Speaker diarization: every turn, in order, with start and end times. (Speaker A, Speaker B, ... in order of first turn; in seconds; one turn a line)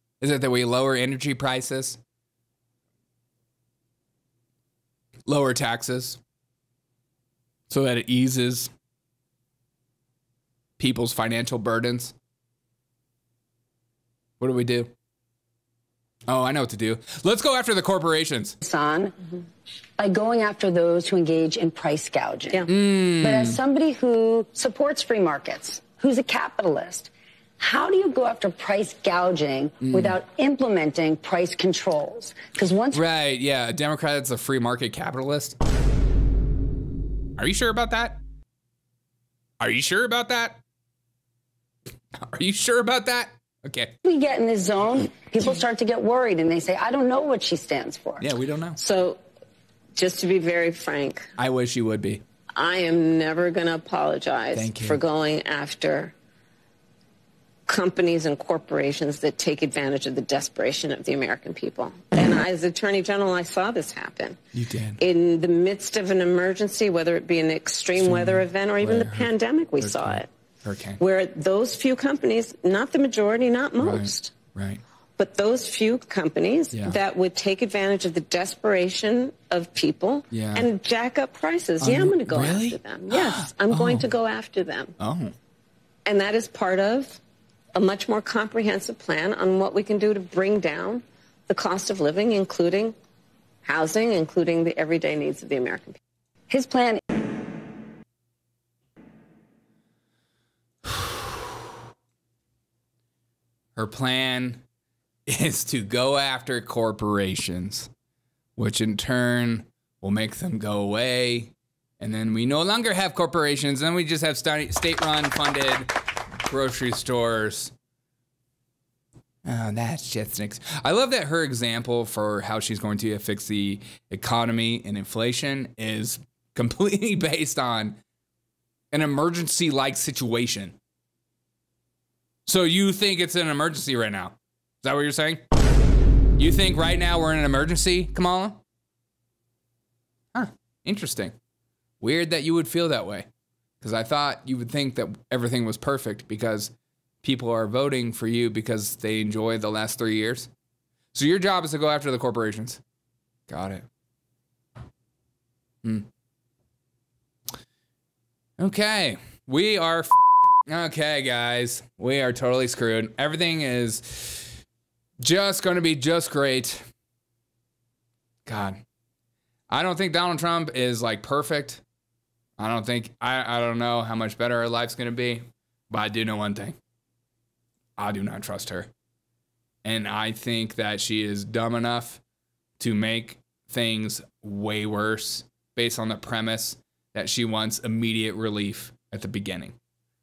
Speaker A: 0.2-2.0
Speaker A: 5.3-6.2
Speaker A: 7.7-8.7
Speaker A: 10.8-12.1
Speaker A: 14.4-14.9
Speaker A: 16.3-18.6
Speaker B: 18.6-19.1
Speaker B: 20.0-33.0
Speaker A: 22.7-23.6
Speaker A: 29.8-30.2
Speaker A: 32.9-35.6
Speaker A: 37.4-38.2
Speaker A: 39.6-40.6
Speaker A: 42.2-43.9
Speaker B: 44.0-48.3
Speaker A: 48.2-48.8
Speaker C: 48.8-49.2
Speaker C: 50.0-51.3
Speaker A: 51.4-52.2
Speaker C: 52.6-56.1
Speaker A: 54.5-55.0
Speaker C: 57.7-64.4
Speaker A: 64.5-65.0
Speaker C: 65.0-70.3
Speaker A: 68.0-71.0
Speaker C: 71.0-74.3
Speaker A: 73.8-74.8
Speaker C: 75.2-84.9
Speaker A: 80.3-80.7
Speaker A: 81.8-84.1
Speaker A: 85.0-85.3
Speaker C: 86.1-87.2
Speaker C: 87.8-93.0
Speaker C: 93.7-96.0
Speaker B: 96.5-97.0
Speaker A: 100.9-101.3
Speaker A: 103.8-104.6
Speaker A: 105.3-107.9
Speaker A: 108.6-115.9
Speaker A: 116.4-117.7
Speaker A: 119.5-128.0
Speaker A: 128.9-130.8
Speaker A: 132.5-135.4
Speaker A: 136.4-138.6
Speaker A: 140.3-141.3
Speaker A: 142.0-143.3
Speaker A: 143.8-150.5
Speaker A: 151.1-152.8
Speaker A: 153.5-153.9
Speaker A: 158.6-160.1
Speaker A: 160.7-164.6
Speaker A: 165.2-166.8
Speaker A: 168.5-168.8
Speaker A: 169.7-171.8
Speaker A: 172.6-176.8
Speaker A: 178.0-178.9
Speaker A: 179.8-182.2
Speaker A: 182.8-189.8